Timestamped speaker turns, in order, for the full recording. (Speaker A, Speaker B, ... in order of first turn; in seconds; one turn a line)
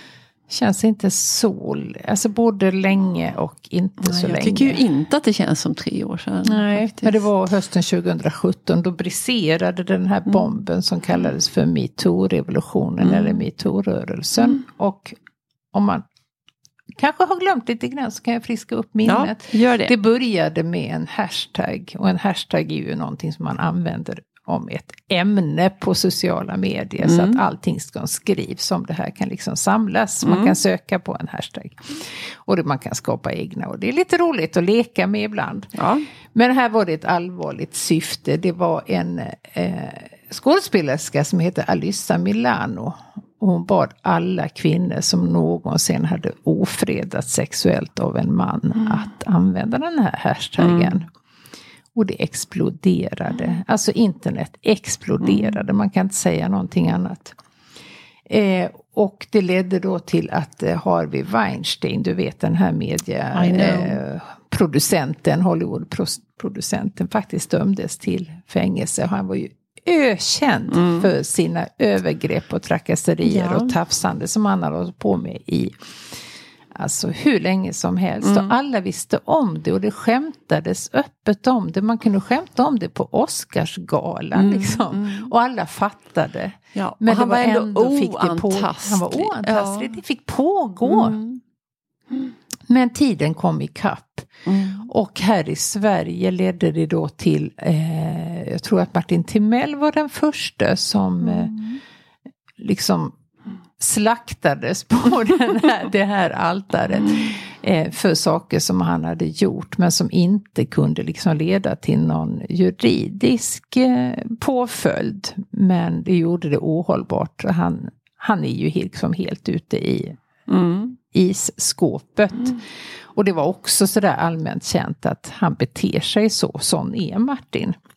Speaker A: 0.5-4.8
Speaker B: 4.0-7.2
Speaker A: 6.4-15.1
Speaker B: 13.0-13.4
Speaker A: 15.7-16.0
Speaker A: 17.0-35.7
Speaker B: 19.1-19.9
Speaker B: 27.0-27.4
Speaker B: 30.2-30.6
Speaker B: 35.7-36.0
Speaker A: 36.3-51.1
Speaker B: 50.6-51.0
Speaker A: 52.0-57.4
Speaker B: 55.2-55.5
Speaker A: 58.3-75.7
Speaker B: 63.3-64.0
Speaker B: 70.7-71.1
Speaker B: 73.2-73.8
Speaker A: 76.7-91.2
Speaker B: 78.2-78.5
Speaker B: 84.3-85.3
Speaker B: 86.8-90.0
Speaker B: 90.8-91.4
Speaker A: 92.7-94.3
Speaker B: 94.5-94.9
Speaker A: 94.8-101.5
Speaker B: 101.2-101.8
Speaker A: 102.6-103.2
Speaker A: 103.8-120.2
Speaker B: 120.5-121.0
Speaker A: 121.1-122.6
Speaker A: 123.1-127.8